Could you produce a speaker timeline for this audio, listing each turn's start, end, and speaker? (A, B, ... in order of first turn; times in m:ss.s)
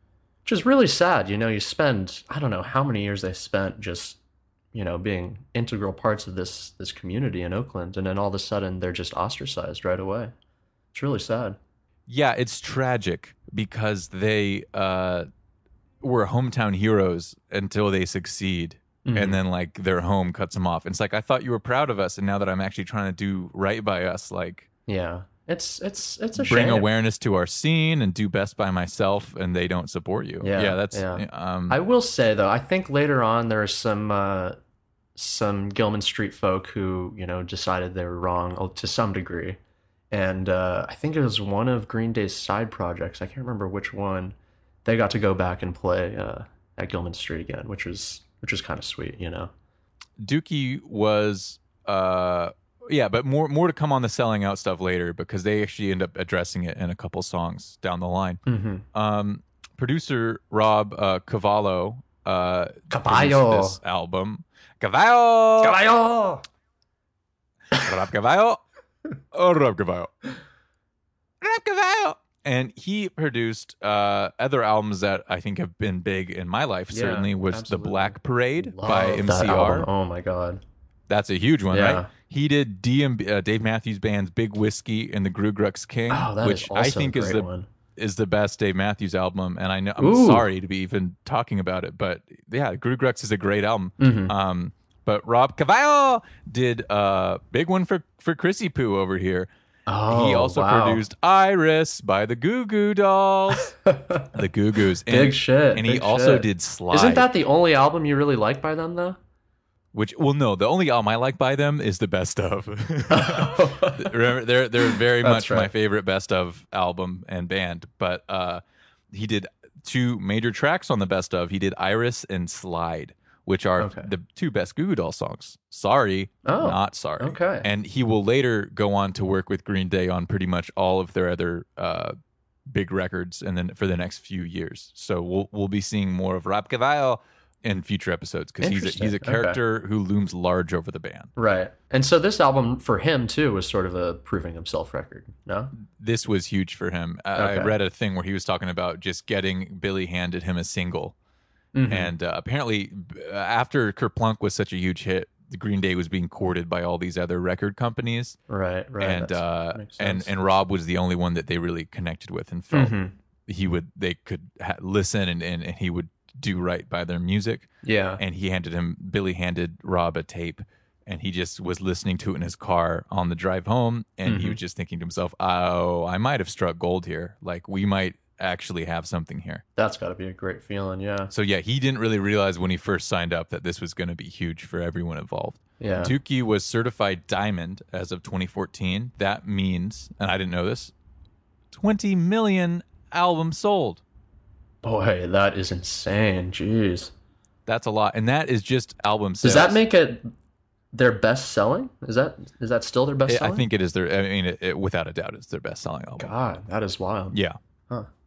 0:00.5-0:04.2 A
0:04.7-0:10.3 A
0:10.9-0:11.6 A
0:12.1-0:15.3 B
0:16.0-0:24.7 B
0:19.0-0:19.4 A
0:24.9-0:26.9 A
0:26.4-0:31.8 B
0:30.4-0:34.6 A
0:35.2-0:39.6 A
0:40.1-0:49.5 A
0:50.2-1:05.8 B
0:58.5-0:58.8 A
1:02.9-1:03.8 A
1:05.6-1:06.4 A
1:07.7-1:08.6 B
1:09.3-1:10.1 B
1:11.4-1:19.9 B
1:16.9-1:20.6 A
1:21.1-1:39.5 B
1:21.7-1:22.1 A
1:26.1-1:27.7 A
1:30.0-1:30.5 A
1:34.0-1:34.3 A
1:39.9-1:41.0 A
1:40.1-1:43.8 B
1:43.8-1:44.3 A
1:44.3-1:47.3 B
1:45.1-1:49.2 A
1:49.9-2:12.2 B
1:53.1-1:54.3 A
1:54.8-1:55.7 A
2:03.8-2:04.1 A
2:06.4-2:07.7 A
2:12.7-2:21.3 B
2:18.6-2:19.6 A
2:21.4-2:25.7 A
2:25.8-2:31.2 B
2:27.4-2:27.8 A
2:31.7-2:32.1 A
2:31.9-2:38.4 B
2:38.5-2:40.3 A
2:39.0-2:43.0 B
2:42.7-2:43.1 A
2:43.5-2:59.6 B
2:47.8-2:48.2 A
2:54.3-2:54.6 A
2:59.8-3:01.3 A
3:01.3-3:10.9 B
3:05.8-3:06.1 A
3:11.7-3:14.0 B
3:14.8-3:17.1 A
3:17.7-3:19.8 B
3:19.4-3:20.3 A
3:20.9-3:23.7 A
3:23.3-3:26.3 B
3:26.2-3:27.4 A
3:27.3-3:27.6 B